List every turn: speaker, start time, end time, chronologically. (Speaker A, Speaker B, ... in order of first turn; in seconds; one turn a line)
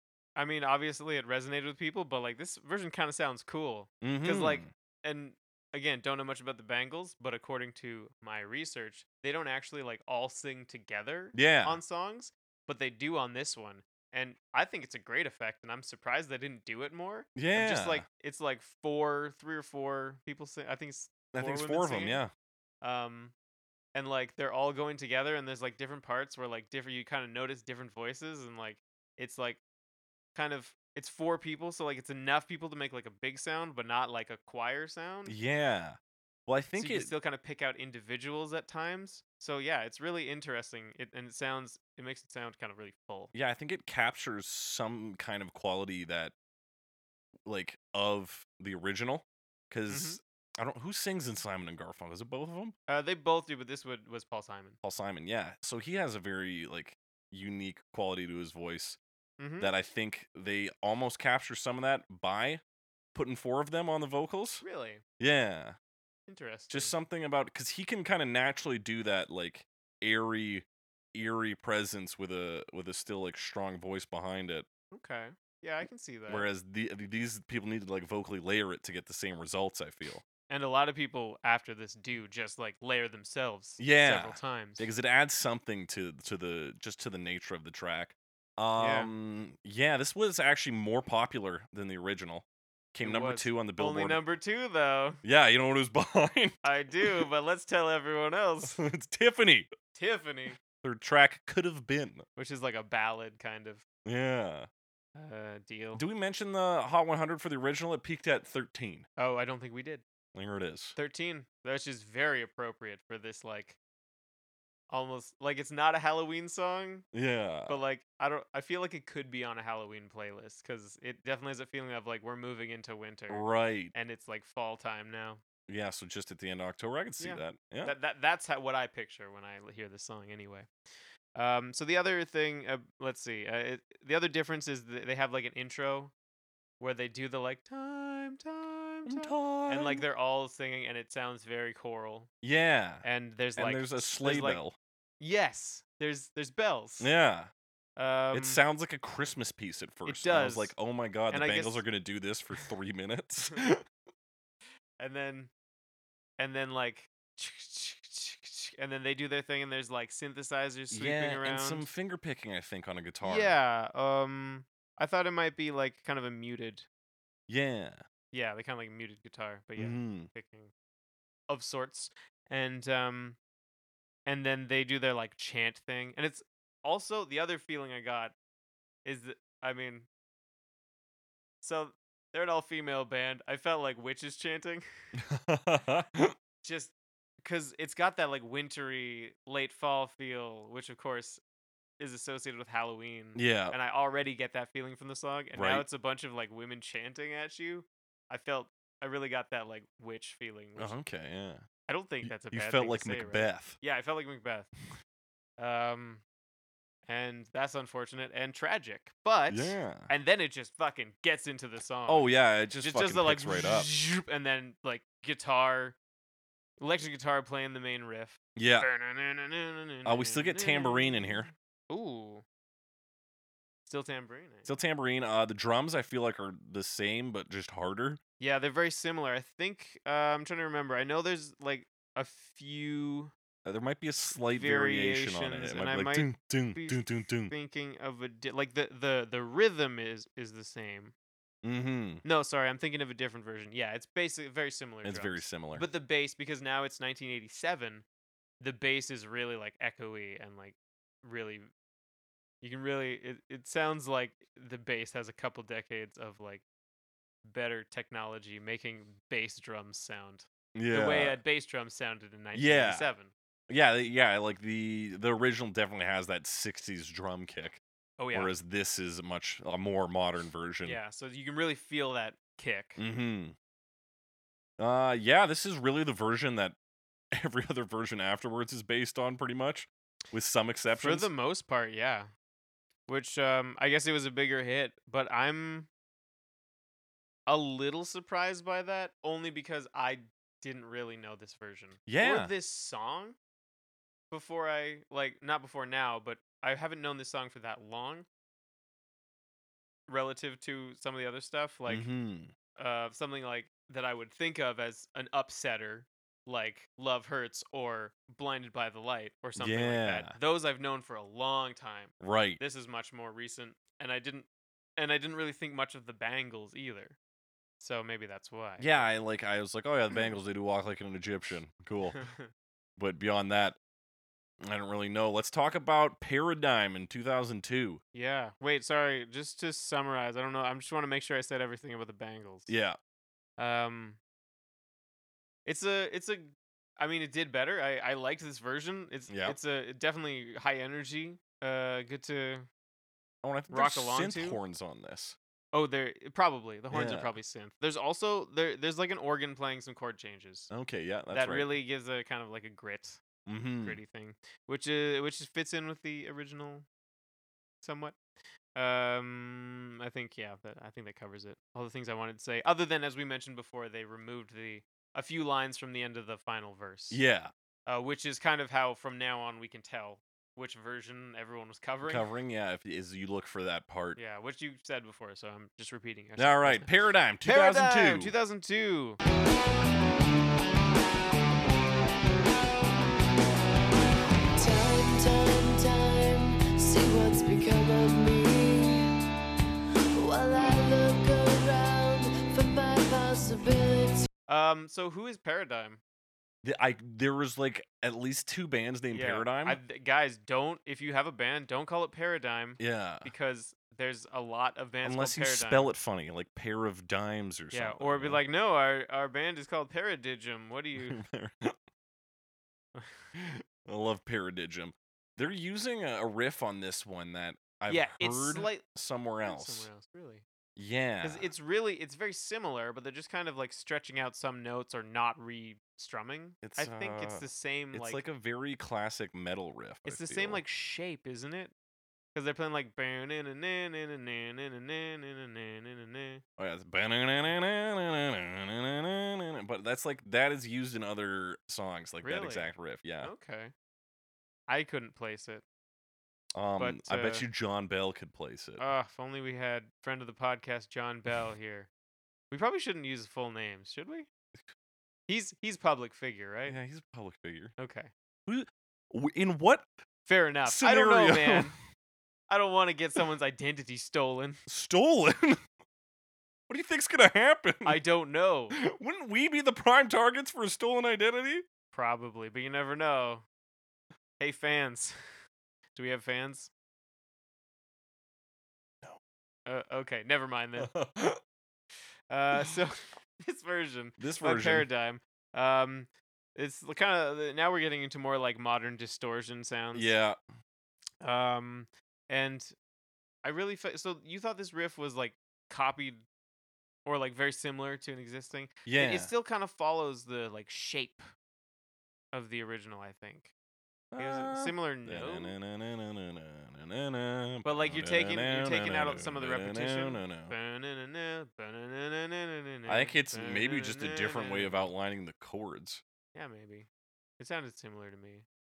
Speaker A: 0.4-22.2
Speaker B: 4.0-4.7
Speaker B: 11.3-11.8
Speaker B: 17.4-18.1
Speaker B: 21.3-22.3
Speaker A: 22.8-23.3
Speaker A: 23.9-29.6
Speaker A: 30.4-35.4
Speaker B: 35.3-37.1
Speaker A: 36.8-43.3
Speaker B: 43.3-46.3
Speaker B: 47.5-52.8
Speaker A: 49.9-50.2
Speaker A: 52.9-54.8
Speaker B: 54.8-59.0
Speaker A: 59.4-59.7
Speaker B: 59.6-62.6
Speaker B: 63.1-64.6
Speaker A: 64.6-65.0
Speaker B: 65.2-65.8
Speaker A: 66.3-66.9
Speaker B: 66.7-74.7
Speaker A: 74.9-76.5
Speaker B: 76.3-80.2
Speaker A: 80.5-84.9
Speaker B: 83.8-94.2
Speaker A: 88.8-89.1
Speaker A: 93.0-95.2
Speaker B: 95.2-96.6
Speaker A: 96.6-98.8
Speaker B: 98.6-99.7
Speaker A: 100.0-100.6
Speaker B: 100.7-102.3
Speaker A: 102.4-103.8
Speaker B: 104.0-104.7
Speaker A: 105.2-106.0
Speaker B: 106.0-109.1
Speaker A: 109.2-110.0
Speaker B: 110.3-111.0
Speaker A: 111.0-113.8
Speaker A: 114.9-117.1
Speaker B: 117.1-117.8
Speaker A: 117.7-125.4
Speaker B: 123.3-123.9
Speaker B: 125.7-128.0
Speaker A: 127.2-130.7
Speaker A: 131.3-136.1
Speaker A: 136.8-142.3
Speaker B: 139.1-140.0
Speaker B: 142.4-143.1
Speaker A: 143.0-144.6
Speaker B: 143.6-144.8
Speaker A: 145.2-147.1
Speaker B: 147.0-147.5
Speaker A: 148.0-148.6
Speaker B: 148.3-153.8
Speaker A: 150.1-150.8
Speaker A: 151.3-151.8
Speaker A: 155.0-155.5
Speaker A: 156.4-161.9
Speaker B: 160.9-163.6
Speaker A: 163.2-166.9
Speaker B: 167.5-168.0
Speaker A: 168.3-170.7
Speaker B: 169.8-170.3
Speaker A: 171.5-173.4
Speaker A: 174.3-178.3
Speaker A: 179.1-180.1
Speaker A: 181.6-184.9
Speaker B: 185.2-186.3
Speaker A: 186.6-191.4
Speaker A: 192.0-200.9
Speaker B: 193.3-193.8
Speaker B: 195.6-195.8
Speaker B: 200.8-201.7
Speaker A: 201.9-204.7
Speaker B: 202.2-203.8
Speaker A: 205.6-206.2
Speaker A: 207.1-212.3
Speaker B: 209.5-210.1
Speaker B: 212.1-213.9
Speaker A: 212.8-216.0
Speaker A: 216.8-222.4
Speaker B: 218.6-218.9
Speaker B: 220.1-221.5
Speaker A: 223.9-224.7
Speaker B: 224.7-228.2
Speaker A: 228.4-233.3
Speaker B: 233.7-237.5
Speaker A: 234.3-241.1
Speaker B: 241.6-242.2
Speaker A: 242.2-248.0
Speaker B: 245.0-245.9
Speaker A: 248.6-251.7
Speaker A: 252.6-256.6
Speaker A: 257.4-263.3
Speaker B: 260.8-261.4
Speaker B: 262.5-263.1
Speaker B: 263.7-267.8
Speaker A: 268.2-268.5
Speaker B: 268.3-271.0
Speaker A: 270.8-273.0
Speaker B: 273.0-273.6
Speaker B: 274.8-276.8
Speaker B: 277.3-281.3
Speaker A: 280.9-282.3
Speaker A: 283.1-285.9
Speaker A: 287.5-293.4
Speaker B: 292.1-292.5
Speaker A: 294.3-298.3
Speaker A: 300.1-302.1
Speaker B: 301.9-302.5
Speaker A: 302.8-317.2
Speaker B: 309.6-310.4
Speaker B: 312.2-312.6
Speaker A: 317.8-319.1
Speaker B: 318.8-322.2
Speaker A: 322.1-322.5
Speaker B: 323.0-323.8
Speaker B: 324.6-328.0
Speaker A: 328.1-332.7
Speaker B: 332.7-333.0
Speaker A: 333.6-334.2
Speaker A: 335.7-342.7
Speaker B: 339.3-339.6
Speaker B: 343.4-345.4
Speaker A: 343.7-344.6
Speaker A: 345.7-350.7
Speaker B: 346.9-347.4
Speaker B: 350.7-351.8
Speaker A: 351.3-353.2
Speaker B: 353.5-354.0
Speaker A: 353.8-356.9
Speaker A: 357.8-358.2
Speaker A: 358.8-367.2
Speaker B: 367.1-367.5
Speaker A: 367.9-372.2
Speaker B: 372.1-374.2
Speaker A: 374.2-379.2
Speaker B: 376.4-378.3
Speaker C: 384.6-389.2
Speaker C: 390.1-394.3
Speaker A: 394.5-396.0
Speaker B: 396.6-399.8
Speaker A: 399.1-405.9
Speaker B: 402.8-403.3
Speaker B: 405.0-408.4
Speaker A: 407.7-411.2
Speaker B: 411.0-411.8
Speaker A: 412.9-413.3
Speaker B: 413.4-419.9
Speaker A: 417.9-418.9
Speaker A: 419.5-420.4
Speaker B: 420.8-421.5
Speaker A: 421.2-428.2
Speaker B: 426.6-430.6
Speaker A: 430.1-431.7
Speaker A: 432.4-436.4
Speaker B: 436.6-443.3
Speaker A: 442.2-443.7
Speaker A: 444.7-445.6
Speaker B: 446.6-448.9
Speaker A: 446.8-447.5
Speaker A: 448.8-451.9
Speaker A: 452.5-454.3
Speaker A: 455.3-456.8
Speaker B: 456.7-457.7
Speaker A: 457.8-458.1
Speaker B: 458.5-459.9
Speaker A: 460.3-461.8
Speaker B: 460.6-461.8
Speaker A: 462.5-464.6
Speaker B: 464.7-465.6
Speaker B: 466.7-468.0
Speaker A: 467.9-468.8
Speaker B: 468.7-471.6
Speaker A: 471.9-473.4
Speaker A: 474.4-475.1
Speaker A: 475.9-476.7
Speaker A: 479.7-480.9
Speaker B: 480.8-481.4
Speaker A: 482.3-490.1
Speaker B: 484.2-484.9
Speaker B: 489.9-490.4
Speaker A: 491.2-492.7
Speaker A: 493.4-496.2
Speaker A: 497.1-501.3
Speaker B: 498.9-499.3
Speaker A: 502.3-503.5
Speaker B: 504.1-510.5
Speaker A: 504.2-505.5
Speaker A: 507.6-514.9
Speaker B: 512.9-516.0
Speaker A: 516.4-516.9
Speaker A: 517.4-518.5